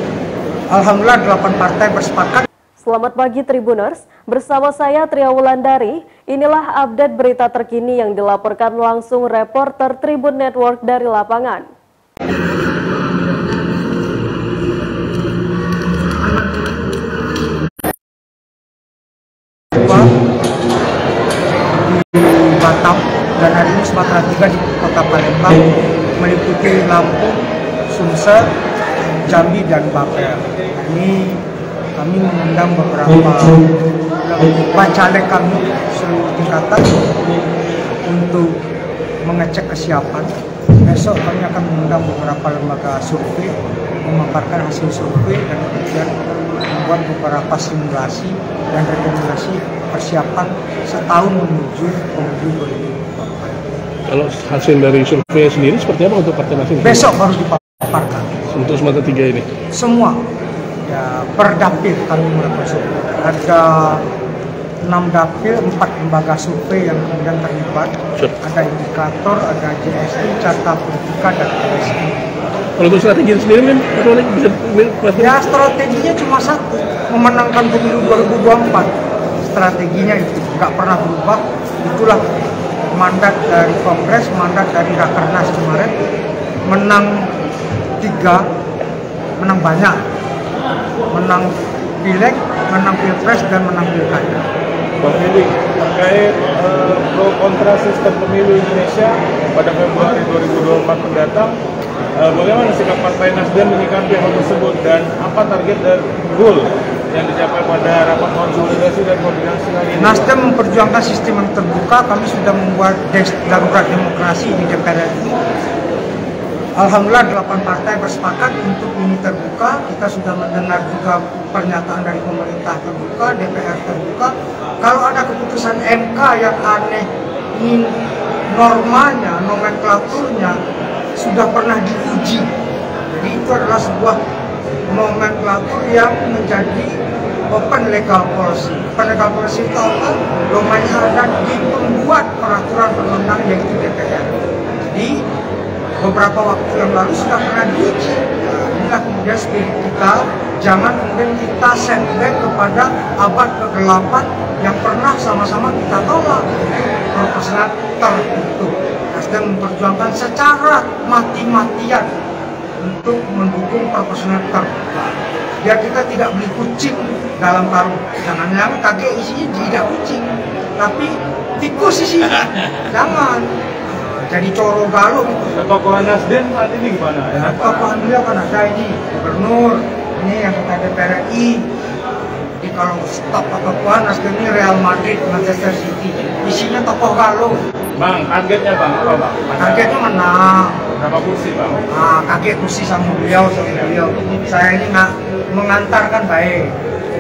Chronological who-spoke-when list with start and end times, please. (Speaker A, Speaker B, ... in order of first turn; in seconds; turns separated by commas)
Speaker A: 0.7-2.5, Speaker B: 2.8-11.7, Speaker A: 19.7-20.1, Speaker A: 21.8-25.7, Speaker A: 26.2-28.5, Speaker A: 29.3-31.4, Speaker A: 32.0-33.6, Speaker A: 34.2-37.1, Speaker A: 38.1-38.5, Speaker A: 39.2-40.3, Speaker A: 40.8-43.5, Speaker A: 44.0-53.6, Speaker C: 54.1-57.1, Speaker A: 56.8-58.4, Speaker C: 58.5-59.5, Speaker A: 59.7-60.2, Speaker A: 60.9-64.0, Speaker A: 64.8-72.2, Speaker C: 72.8-75.5, Speaker A: 75.2-78.9, Speaker A: 79.5-82.2, Speaker A: 83.0-86.0, Speaker A: 86.7-87.1, Speaker A: 88.0-88.4, Speaker A: 89.4-90.0, Speaker A: 91.1-91.5, Speaker A: 92.0-94.5, Speaker D: 95.0-101.5, Speaker D: 102.2-110.3, Speaker A: 110.0-115.4, Speaker A: 116.8-127.9, Speaker A: 128.5-130.6, Speaker A: 131.2-132.5, Speaker A: 133.1-134.2, Speaker A: 134.9-136.9, Speaker A: 137.5-144.3, Speaker A: 144.9-145.2, Speaker A: 146.0-162.1, Speaker A: 162.8-164.8, Speaker A: 165.6-175.6, Speaker D: 175.5-178.0, Speaker A: 177.3-181.6, Speaker A: 182.6-187.6, Speaker D: 188.0-190.0, Speaker A: 189.6-190.7, Speaker D: 190.9-191.9, Speaker A: 191.9-196.7